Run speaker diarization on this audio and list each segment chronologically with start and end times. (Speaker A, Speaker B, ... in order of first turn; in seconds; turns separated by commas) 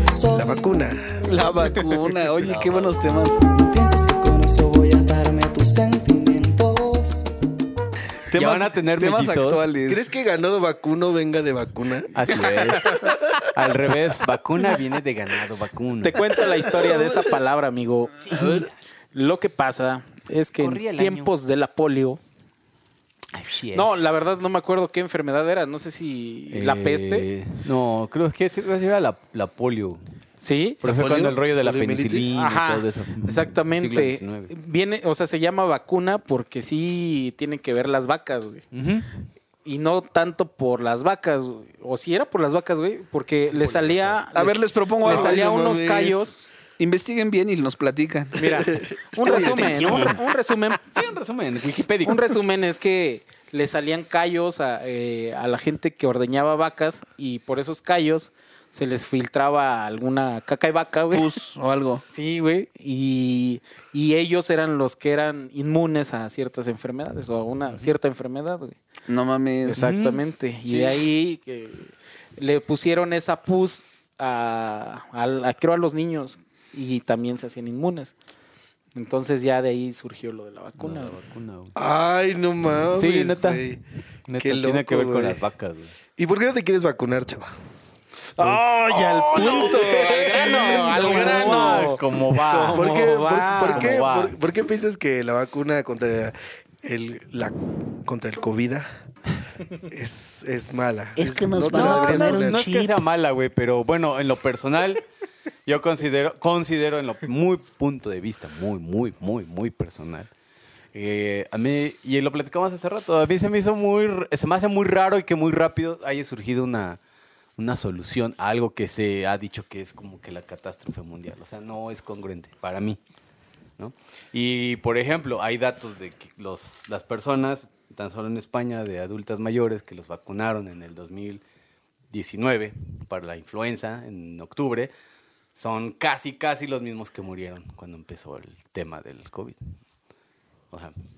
Speaker A: 0.1-0.8, Speaker B: 0.3-1.2, Speaker C: 1.2-3.4, Speaker D: 2.2-3.0, Speaker A: 3.5-7.2, Speaker C: 8.3-10.1, Speaker D: 8.3-9.7, Speaker B: 9.9-12.1, Speaker D: 12.1-16.2, Speaker B: 12.9-13.3, Speaker E: 16.0-18.5, Speaker C: 16.7-17.1, Speaker D: 18.2-18.7, Speaker B: 18.3-18.7, Speaker E: 19.1-22.2, Speaker D: 20.6-21.3, Speaker D: 23.3-23.9, Speaker E: 23.7-27.3, Speaker D: 26.5-30.0, Speaker E: 30.4-30.8, Speaker D: 30.8-34.5, Speaker B: 30.8-32.3, Speaker E: 32.3-38.6, Speaker D: 38.7-39.1, Speaker E: 39.6-46.4, Speaker D: 43.5-44.2, Speaker C: 44.3-45.4, Speaker B: 45.0-46.2, Speaker C: 46.8-50.1, Speaker E: 48.4-50.9, Speaker B: 48.4-49.6, Speaker D: 49.2-50.2, Speaker D: 50.9-52.3, Speaker E: 52.0-61.3, Speaker C: 61.1-62.0, Speaker E: 62.1-68.8, Speaker C: 69.1-69.8, Speaker E: 69.6-78.1, Speaker D: 69.8-71.0, Speaker E: 78.9-81.2, Speaker D: 80.8-81.7, Speaker B: 81.8-83.8, Speaker D: 82.9-83.7, Speaker D: 84.3-85.9, Speaker B: 84.4-85.4, Speaker B: 86.2-87.5, Speaker E: 88.4-93.9, Speaker D: 88.4-92.8, Speaker B: 89.2-91.9, Speaker B: 92.7-98.8, Speaker D: 93.6-94.4, Speaker B: 99.9-102.7, Speaker A: 101.2-102.5, Speaker D: 101.7-105.0, Speaker D: 105.7-110.3, Speaker D: 110.9-117.0, Speaker D: 117.6-123.0, Speaker D: 123.8-131.4, Speaker D: 132.1-134.9, Speaker D: 135.6-139.6